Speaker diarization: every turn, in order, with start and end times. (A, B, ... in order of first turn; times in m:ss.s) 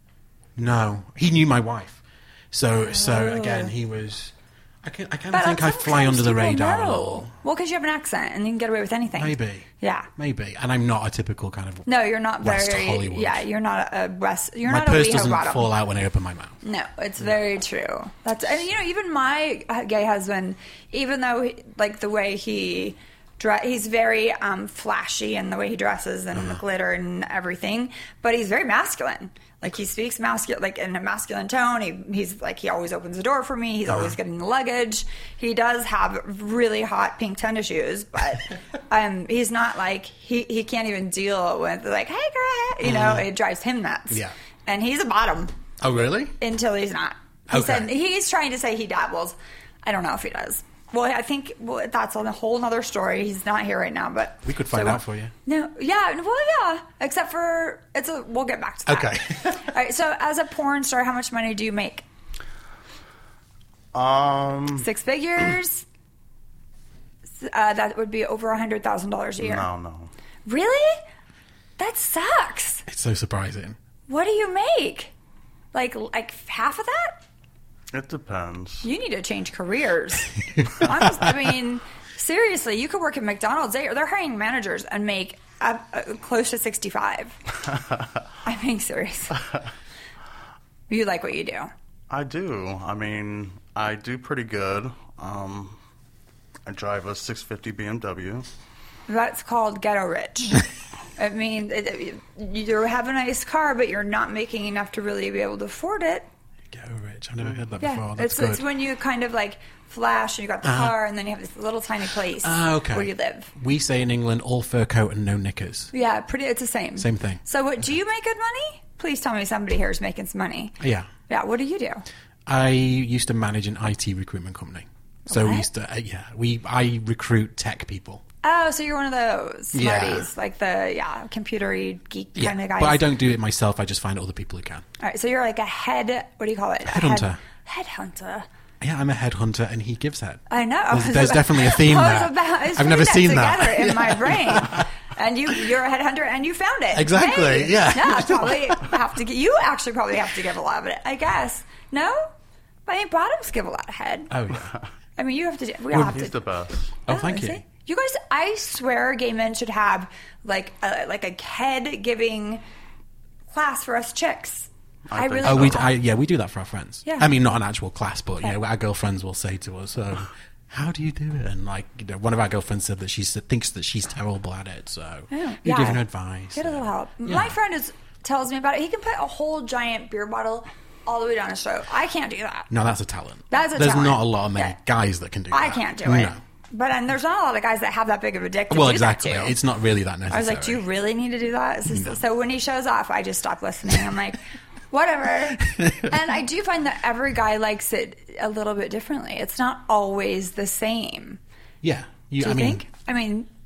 0:00.6-0:07.3 A
0:02.9-0:03.7 B
0:05.3-0:10.1 B
0:09.2-0:11.9 A
0:11.9-0:15.7 B
0:12.4-0:13.4 A
0:14.7-0:16.6 A
0:16.6-0:45.5 B
0:26.3-0:26.6 A
0:33.9-0:34.2 A
0:42.8-0:43.3 A
0:45.8-0:46.4 A
0:46.4-1:02.0 B
0:47.5-0:47.9 A
0:54.4-0:55.3 A
0:58.9-0:59.7 A
1:03.9-1:04.9 C
1:04.8-1:05.8 B
1:07.4-1:09.7 B
1:09.4-1:10.1 C
1:10.5-1:11.0 B
1:11.8-1:12.8 B
1:12.9-1:13.8 A
1:14.1-1:15.1 B
1:15.7-1:17.2 B
1:17.9-1:18.9 C
1:18.8-1:27.4 B
1:20.6-1:21.2 A
1:28.4-1:29.4 B
1:30.9-1:31.7 B
1:32.1-1:35.8 C
1:36.7-1:38.5 C
1:39.1-1:40.6 B
1:41.2-1:46.3 B
1:46.7-1:48.7 A
1:47.8-1:53.5 B
1:50.6-1:51.0 A
1:52.3-1:55.9 A
1:55.9-2:00.8 B
1:57.0-1:57.4 A
2:00.8-2:01.1 A
2:01.3-2:02.0 B
2:02.5-2:08.2 A
2:05.3-2:05.7 B
2:08.4-2:13.1 B
2:09.7-2:10.3 A
2:12.4-2:14.9 A
2:15.0-2:18.5 B
2:16.8-2:17.4 A
2:18.8-2:24.9 A
2:20.5-2:32.3 B
2:26.9-2:28.9 A
2:32.9-2:34.3 B
2:34.3-2:34.8 A
2:35.2-2:36.3 B
2:35.9-2:36.2 A
2:36.0-2:37.0 C
2:37.1-2:37.6 A
2:37.1-2:42.6 B
2:43.5-2:45.9 B
2:45.1-2:45.8 C
2:45.4-2:57.6 A
2:47.0-2:47.3 B
2:55.3-3:02.7 B
3:02.7-3:06.4 A
3:03.5-3:04.8 B
3:05.5-3:09.6 B
3:08.7-3:10.8 A
3:10.3-3:21.4 B
3:11.9-3:12.2 A
3:15.6-3:16.1 A
3:21.8-3:22.8 A
3:22.4-3:23.5 B